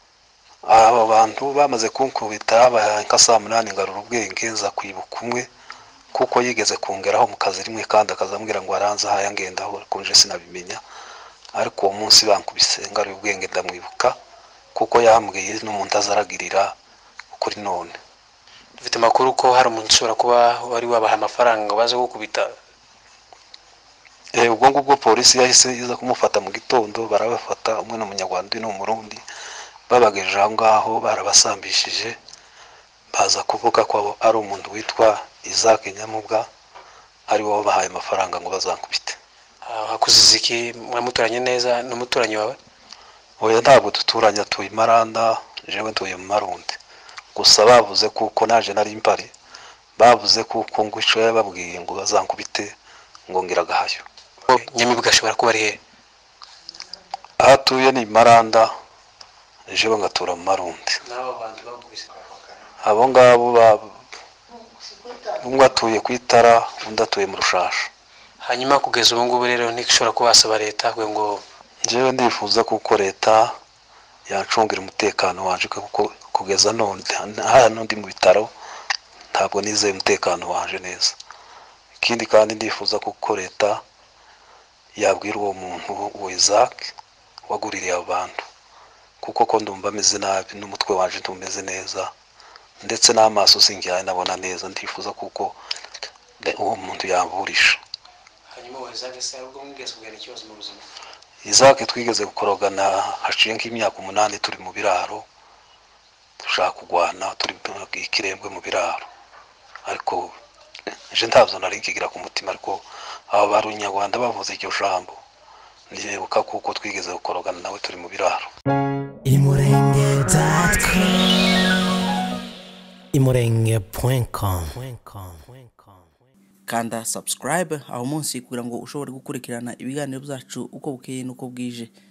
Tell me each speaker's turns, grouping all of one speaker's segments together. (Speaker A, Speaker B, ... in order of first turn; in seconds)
Speaker A: 0.7-5.5, 6.1-10.8, 11.5-14.1, 14.7-16.7, 17.3-18.0, 24.3-29.2, 29.9-32.2, 33.1-36.5, 37.3-39.2, 43.4-46.8, 47.3-49.3, 50.0-52.7, 53.3-54.0, 57.4-58.7, 59.7-61.0, 62.8-64.0, 65.4-67.9, 71.8-73.5, 74.3-78.5, 79.3-81.2, 82.0-83.8, 85.0-86.9, 87.5-88.4, 89.2-92.1, 92.8-95.6, 96.4-97.8, 101.4-105.2, 106.4-109.0, 109.8-110.3, 111.1-115.2, 115.9-118.5
Speaker B: 18.8-22.5, 39.6-42.6, 54.5-55.8, 61.0-62.1, 68.4-71.4, 98.5-100.8
Speaker C: 119.2-121.6, 123.1-126.1
Speaker D: 126.7-131.9